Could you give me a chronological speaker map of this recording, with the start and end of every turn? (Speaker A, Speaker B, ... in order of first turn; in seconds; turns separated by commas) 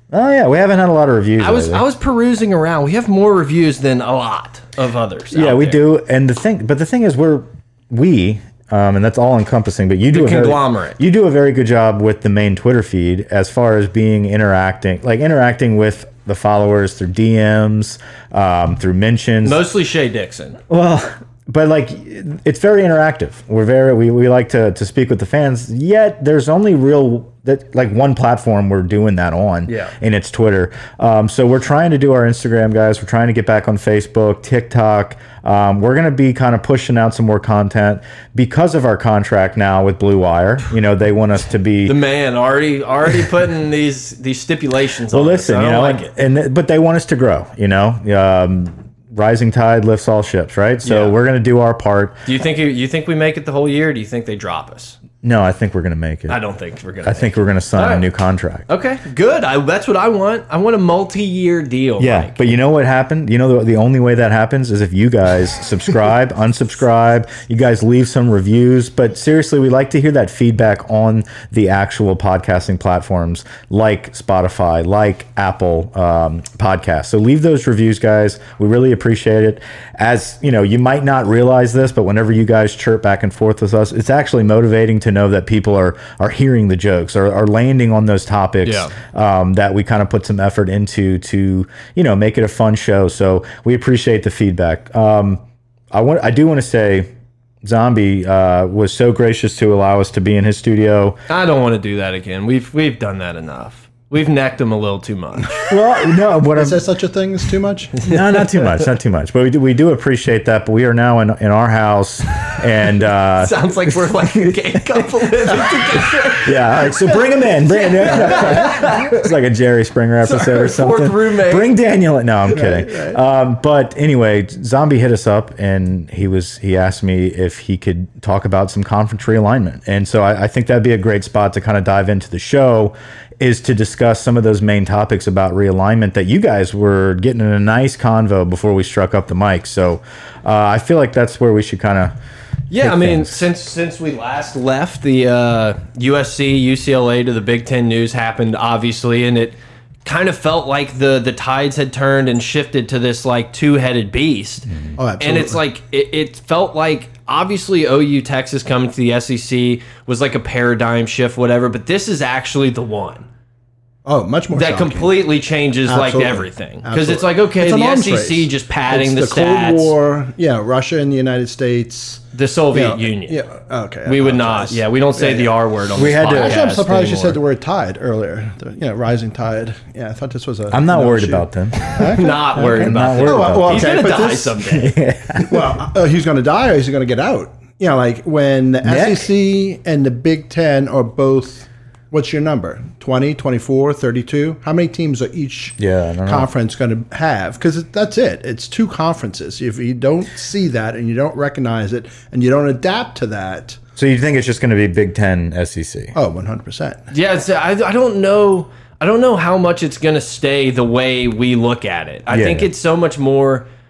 Speaker A: 0.1-1.8, Speaker B: 1.4-5.8, Speaker A: 5.3-19.6, Speaker B: 10.1-11.0, Speaker B: 19.4-20.6, Speaker A: 20.7-42.0, Speaker B: 29.7-29.9, Speaker B: 41.9-46.1, Speaker A: 45.1-52.2, Speaker B: 50.8-51.1, Speaker B: 52.2-55.0, Speaker A: 55.2-56.4, Speaker B: 56.3-58.0, Speaker A: 57.0-58.7, Speaker B: 58.7-62.4, Speaker A: 62.0-95.4, Speaker B: 88.6-88.9, Speaker A: 95.9-97.1, Speaker A: 97.6-101.2, Speaker B: 101.3-105.6, Speaker A: 105.7-106.8, Speaker C: 106.5-108.0, Speaker A: 108.0-114.8, Speaker B: 113.4-119.2, Speaker A: 116.4-142.1, Speaker C: 118.3-118.6, Speaker B: 120.2-121.7, Speaker C: 122.5-123.2, Speaker B: 142.7-154.7, Speaker A: 142.8-143.4, Speaker C: 154.9-155.6, Speaker B: 155.2-163.2, Speaker C: 164.0-165.2, Speaker B: 164.5-169.9, Speaker C: 165.9-175.5, Speaker B: 172.3-173.4, Speaker B: 174.1-177.4, Speaker A: 175.9-176.6, Speaker C: 176.3-184.6, Speaker A: 180.7-181.9, Speaker B: 182.0-185.0, Speaker A: 182.6-183.8, Speaker A: 184.7-185.6, Speaker C: 185.4-203.8, Speaker A: 188.8-189.3, Speaker A: 195.8-196.5, Speaker A: 204.0-206.1, Speaker C: 206.1-207.1, Speaker B: 207.1-213.6, Speaker A: 212.3-212.7